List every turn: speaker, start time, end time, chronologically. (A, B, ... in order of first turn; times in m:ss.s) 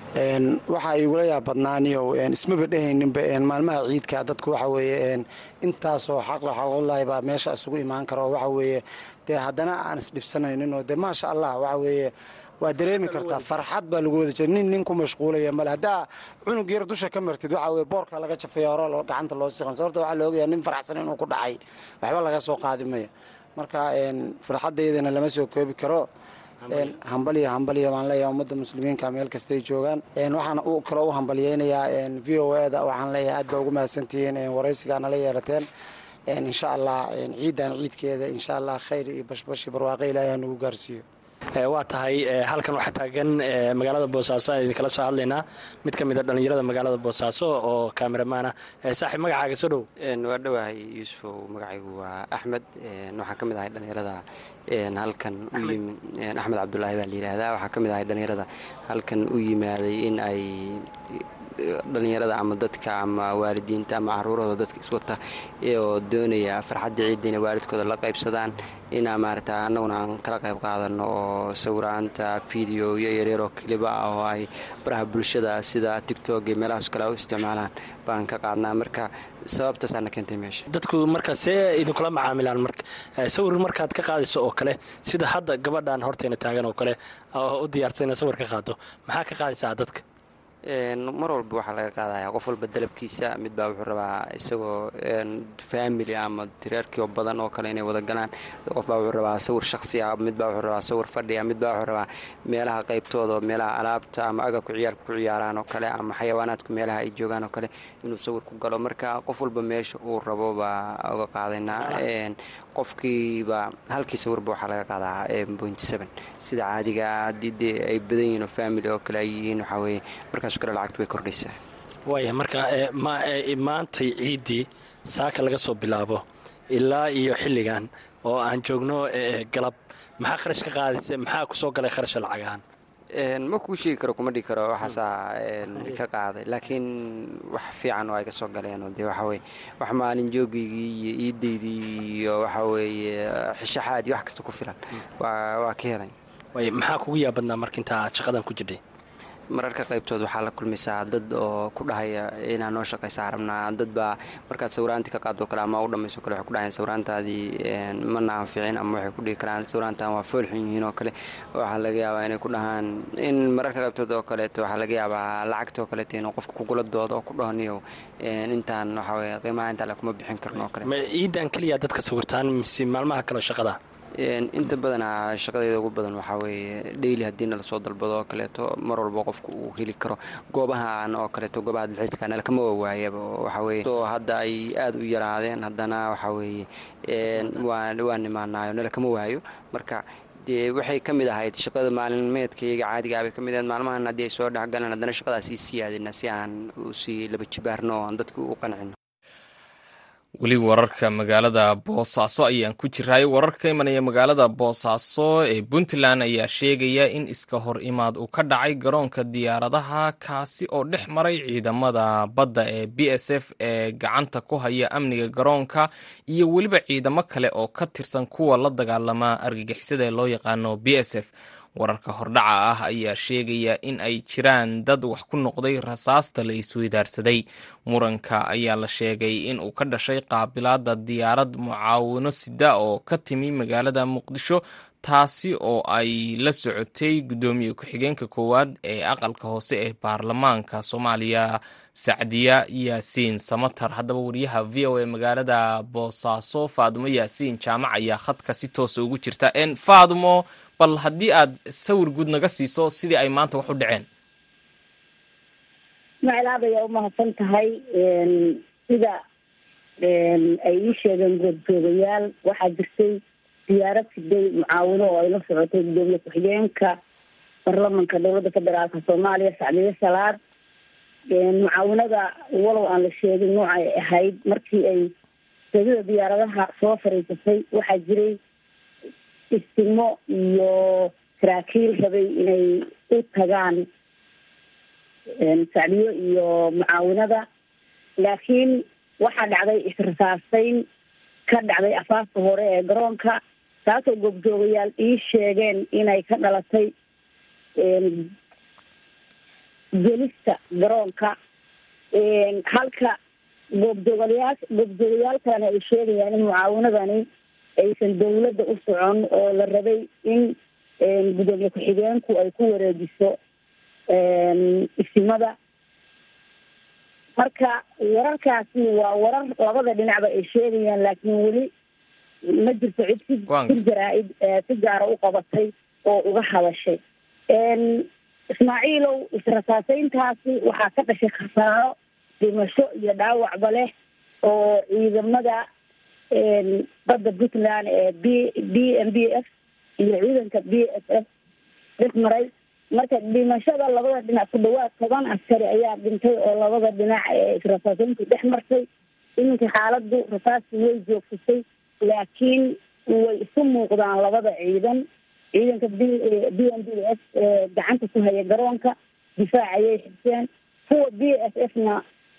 0:00.2-0:12.1 A
0:12.6-0:26.0 A
0:12.9-0:13.6 B
0:26.6-0:26.9 B
0:26.7-0:35.7 A
0:36.3-0:41.0 A
0:41.6-0:49.8 B
0:50.0-1:20.6 C
1:20.7-1:30.0 B
1:30.7-2:01.6 C
2:02.1-2:12.6 B
2:13.2-2:26.1 C
2:26.5-2:28.8 B
2:29.5-2:50.9 C
2:50.8-2:53.8 B
2:54.2-3:18.9 C
3:20.4-4:14.0 D
4:16.2-4:19.2 E
4:20.0-4:27.0 E
4:27.6-4:30.4 E
4:31.3-4:35.1 E
4:35.7-4:38.4 E
4:39.5-4:43.8 E
4:45.4-4:47.4 E
4:48.2-4:50.8 E
4:51.5-4:56.9 E
4:57.8-4:58.3 E
5:00.0-5:01.3 E
5:02.1-5:03.2 E
5:03.7-5:07.2 E
5:07.8-5:13.4 E
5:14.1-5:15.5 E
5:17.4-5:21.7 E
5:22.5-5:33.9 E
5:23.5-5:23.8 D
5:34.4-5:35.6 E
5:36.3-5:39.4 E
5:40.0-5:41.2 E
5:42.0-5:48.9 E
5:49.4-6:02.0 E